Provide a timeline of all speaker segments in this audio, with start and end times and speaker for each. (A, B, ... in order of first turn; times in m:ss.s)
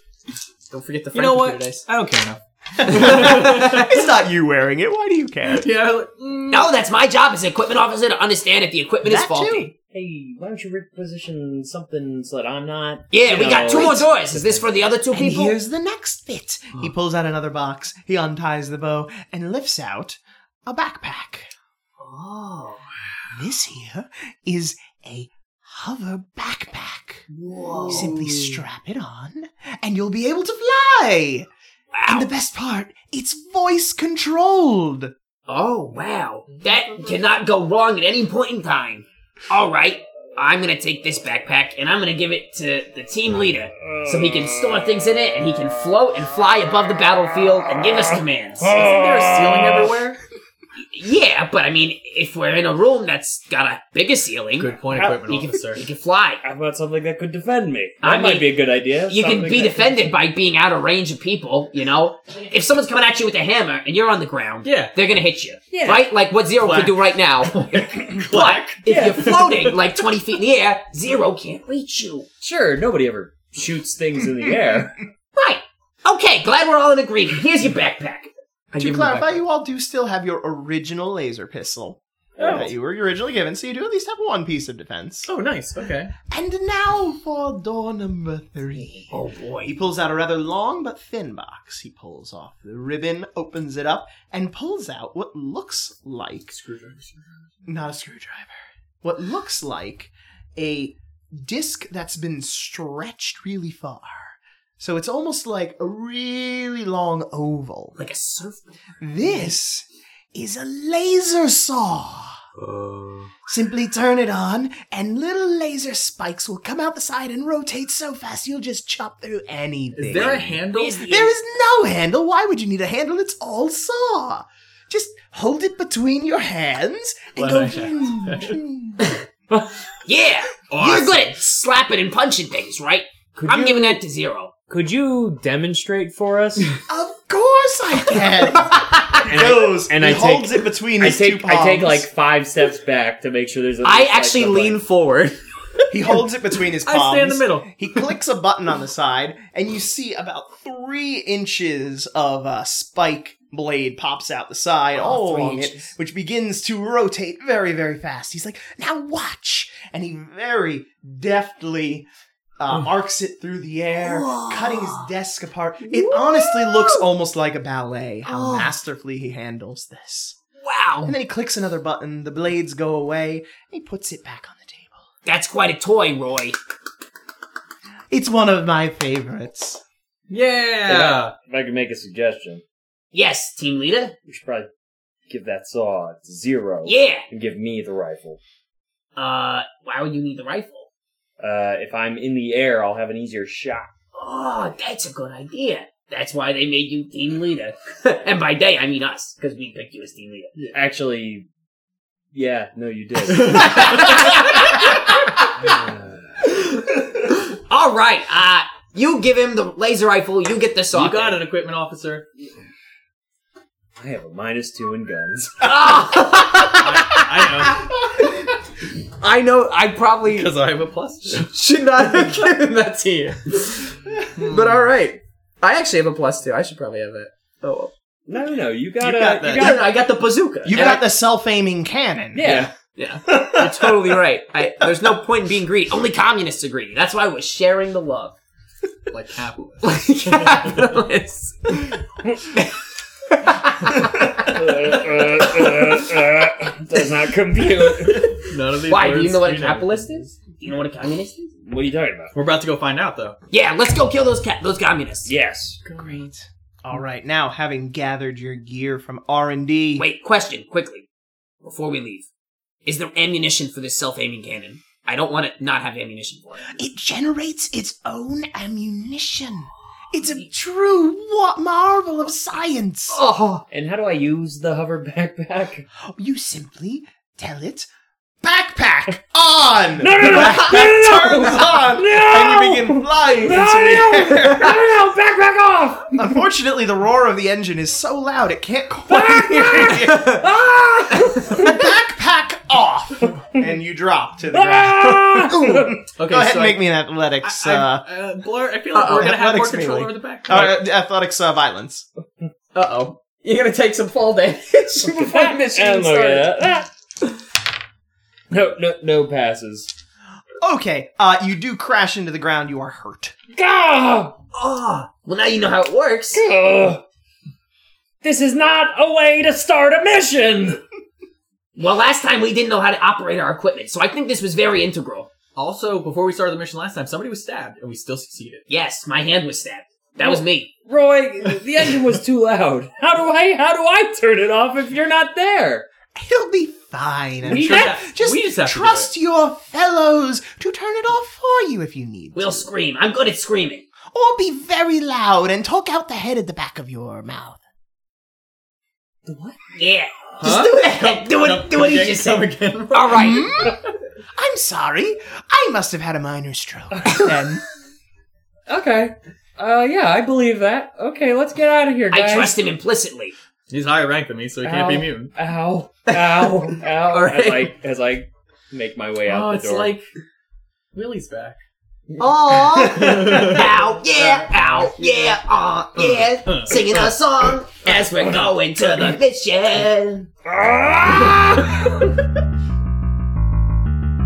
0:00.7-0:01.8 A
0:01.1-0:04.0 B
0:02.8-0:05.7 C
0:02.9-0:04.0 A
0:05.4-0:06.7 B
0:06.5-0:09.7 A
0:09.0-0:09.7 C
0:09.9-0:14.0 D
0:13.1-0:15.6 A
0:13.6-0:21.5 C
0:22.0-0:22.8 A
0:23.3-0:27.3 C
0:27.3-0:28.6 A
0:27.8-0:31.5 C
0:31.9-0:32.3 A
0:32.1-0:35.1 C
0:35.5-0:48.9 A
0:48.7-0:50.2 B
0:49.0-0:49.9 D
0:50.8-0:56.4 A
0:54.6-0:55.8 B
0:54.9-0:55.2 D
0:56.4-0:59.9 D
0:58.0-0:58.5 A
0:59.1-1:12.3 A
1:04.6-1:04.9 B
1:05.7-1:06.1 D
1:06.6-1:10.0 B
1:08.9-1:09.4 D
1:12.4-1:15.0 D
1:15.4-1:19.4 A
1:18.7-1:25.3 C
1:22.4-1:22.7 A
1:25.3-1:26.1 B
1:26.3-1:36.5 C
1:29.0-1:29.7 A
1:36.5-1:37.5 B
1:37.6-1:48.0 C
1:48.0-1:49.5 A
1:49.0-1:52.4 C
1:52.6-1:53.3 B
1:53.5-2:09.1 C
2:00.0-2:01.0 B
2:00.7-2:01.3 A
2:07.4-2:08.6 B
2:10.0-2:14.5 A
2:10.7-2:11.3 B
2:13.4-2:13.9 C
2:13.5-2:13.8 D
2:14.7-2:16.7 D
2:16.9-2:22.1 C
2:18.6-2:19.2 A
2:19.3-2:24.8 D
2:23.8-2:25.4 A
2:25.9-2:42.1 C
2:26.8-2:27.8 B
2:34.9-2:35.9 A
2:42.6-2:50.4 C
2:44.0-2:45.1 A
2:45.9-2:47.0 A
2:48.2-2:48.7 A
2:50.6-2:51.1 A
2:51.0-2:55.0 C
2:55.2-2:56.6 A
2:58.1-2:59.8 C
3:00.3-3:01.3 B
3:00.9-3:01.2 C
3:01.4-3:02.6 D
3:03.1-3:04.1 A
3:04.3-3:04.7 D
3:05.3-3:08.4 D
3:06.8-3:07.2 A
3:09.2-3:10.9 A
3:11.4-3:13.9 D
3:14.1-3:20.5 A
3:20.7-3:21.5 D
3:22.3-3:24.3 D
3:23.3-3:24.5 B
3:23.3-3:25.8 A
3:25.5-3:26.4 D
3:26.4-3:31.4 A
3:30.9-3:32.3 B
3:34.0-3:35.7 D
3:35.6-3:38.5 A
3:36.7-3:37.9 B
3:39.2-3:40.5 A
3:40.3-3:41.5 B
3:41.4-3:47.9 A
3:44.4-3:44.8 B
3:48.3-3:49.9 D
3:49.0-3:49.8 C
3:49.4-3:51.0 A
3:50.6-3:52.6 C
3:52.3-3:52.7 D
3:52.4-3:58.3 A
3:53.3-3:53.9 D
3:59.1-4:01.0 B
3:59.8-4:02.0 A
4:03.2-4:04.9 A
4:04.0-4:08.4 D
4:07.8-4:08.4 A
4:08.4-4:10.3 B
4:08.9-4:11.5 A
4:11.6-4:12.3 D
4:12.3-4:13.4 B
4:13.5-4:15.3 A
4:15.2-4:15.8 D
4:15.8-4:16.2 B
4:15.9-4:20.1 C
4:20.0-4:21.0 A
4:21.6-4:22.3 A
4:22.8-4:26.8 A
4:26.7-4:33.2 C
4:33.1-4:33.6 A
4:33.7-4:35.9 D
4:36.0-4:37.9 C
4:38.4-4:44.9 C
4:40.0-4:46.2 D
4:46.1-4:50.4 C
4:49.1-4:51.8 D
4:50.1-4:50.4 A
4:51.1-4:51.6 A
4:51.5-4:58.1 C
4:54.5-4:56.0 D
4:56.2-4:56.8 B
4:57.4-5:00.8 B
4:58.9-4:59.4 A
4:59.1-5:02.0 C
5:02.7-5:06.5 A
5:05.0-5:06.9 D
5:08.5-5:09.9 D
5:10.6-5:13.3 C
5:13.5-5:14.4 D
5:14.5-5:16.4 A
5:16.3-5:17.0 D
5:18.2-5:20.8 D
5:21.8-5:25.3 A
5:25.6-5:28.6 B
5:28.7-5:30.7 A
5:30.2-5:35.8 D
5:36.1-5:42.7 C
5:37.4-5:39.1 B
5:37.4-5:38.0 D
5:42.3-5:43.8 A
5:44.1-5:47.6 C
5:49.2-5:49.6 D
5:49.7-5:53.6 A
5:50.4-5:53.8 B
5:53.1-5:53.8 C
5:54.3-5:57.6 C
5:58.7-6:02.5 D
6:02.1-6:03.3 A
6:03.7-6:05.3 B
6:04.6-6:10.0 D
6:07.1-6:07.7 A
6:09.3-6:10.1 B
6:10.9-6:11.6 B
6:12.2-6:20.3 A
6:12.8-6:15.4 B
6:15.9-6:18.1 B
6:20.4-6:21.8 D
6:21.1-6:22.0 A